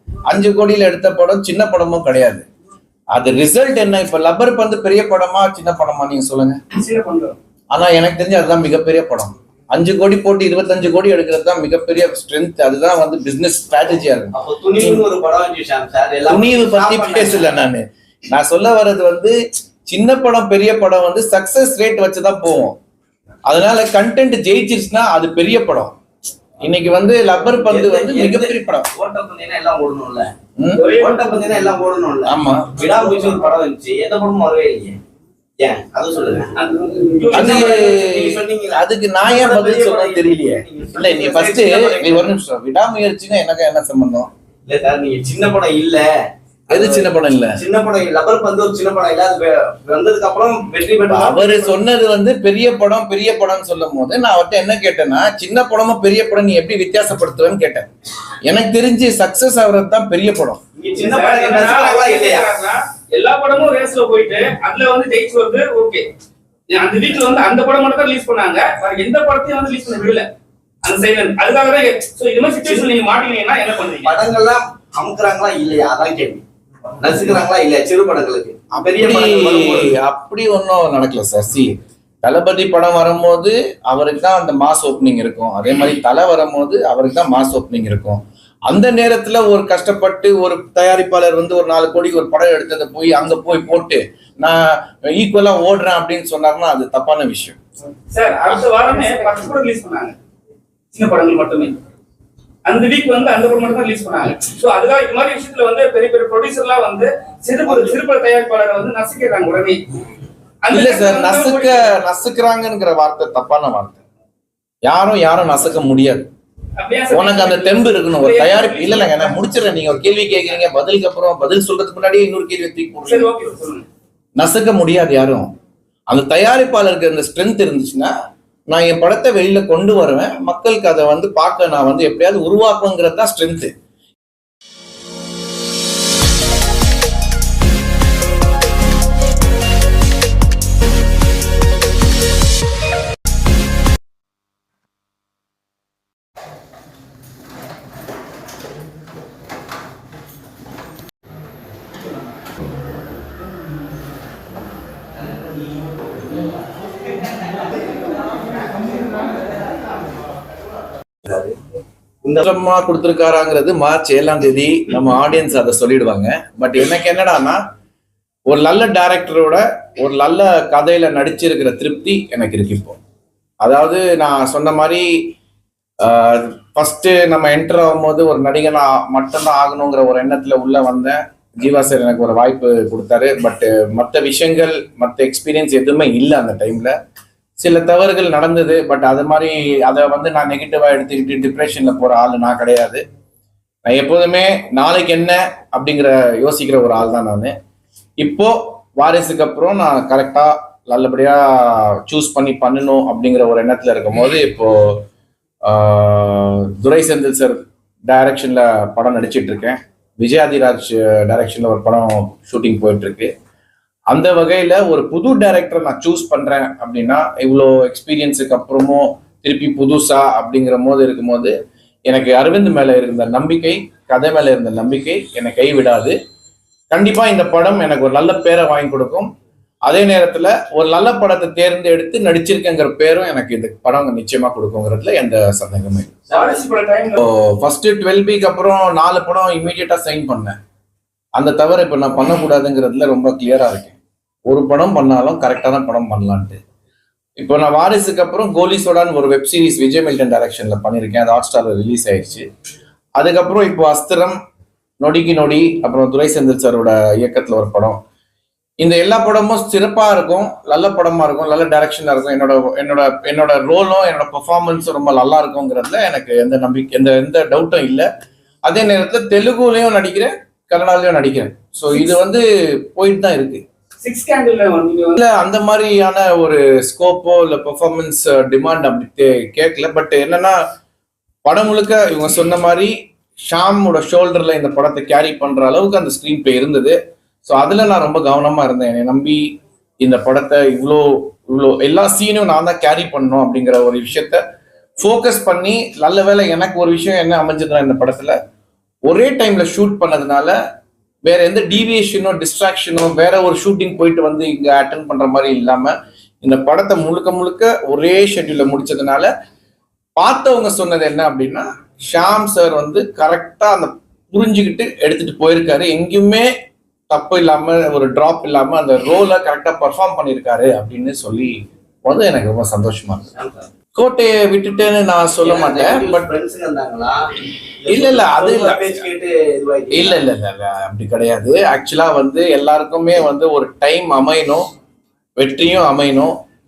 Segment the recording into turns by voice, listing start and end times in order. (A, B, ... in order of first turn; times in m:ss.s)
0:00.3-0:02.4 A
0:03.1-0:06.6 A
0:06.8-0:07.4 B
0:07.7-0:15.0 A
0:14.3-0:17.5 C
0:16.3-0:19.3 A
0:19.9-0:22.7 A
0:23.5-0:25.9 A
0:26.6-0:28.9 A
0:27.6-0:30.3 C
0:30.6-0:30.9 A
0:30.7-0:31.4 B
0:31.0-0:35.0 C
0:32.2-0:32.8 A
0:35.6-0:36.5 C
0:36.6-0:37.8 B
0:37.3-0:44.3 A
0:37.3-0:42.3 C
0:44.7-0:46.0 C
0:46.7-0:51.7 C
0:46.7-0:47.6 A
0:51.1-0:57.8 A
0:58.4-1:00.6 A
1:00.8-1:02.5 C
1:01.0-1:06.0 B
1:06.7-1:10.2 B
1:10.8-1:14.2 B
1:14.0-1:16.4 C
1:17.0-1:19.9 C
1:18.8-1:21.7 A
1:22.2-1:37.6 A
1:38.1-1:40.1 B
1:40.9-1:41.7 B
1:42.6-1:49.8 B
1:47.6-1:47.9 C
1:50.6-1:51.8 B
1:50.7-1:54.0 A
1:54.8-1:56.3 A
1:56.8-1:59.4 B
1:57.1-2:03.3 A
2:03.0-2:03.8 B
2:04.4-2:05.5 A
2:06.1-2:08.1 A
2:08.7-2:13.7 A
2:41.2-2:41.5 C
2:42.4-2:47.6 A
2:48.5-2:53.0 A
2:53.6-2:55.1 A
2:56.0-3:06.9 A
3:07.6-3:13.0 A
3:13.8-3:17.5 A
3:18.2-3:25.0 A
3:25.6-3:33.3 A
3:34.1-3:41.5 A
3:42.1-3:46.1 A
3:46.9-3:49.3 A
3:49.8-3:56.2 A
3:56.3-3:56.6 C
3:56.3-3:57.2 B
3:57.2-4:00.6 A
4:01.4-4:04.0 A
4:04.5-4:06.6 A
4:07.4-4:12.4 A
4:13.2-4:14.4 A
4:15.0-4:18.0 A
4:18.8-4:28.1 A
4:28.6-4:33.6 A
4:34.0-4:35.2 B
4:35.2-4:40.6 A
4:41.4-4:42.9 A
4:43.4-4:49.4 A
4:50.0-4:54.4 A
4:55.0-4:58.4 A
4:59.0-5:00.5 A
5:01.2-5:09.3 A
5:10.2-5:16.5 A
5:17.1-5:23.2 A
5:23.4-5:23.7 C
5:24.0-5:26.3 A
5:25.4-5:27.2 C
5:27.8-5:30.2 C
5:27.9-5:29.1 A
5:29.9-5:34.6 A
5:35.4-5:36.3 A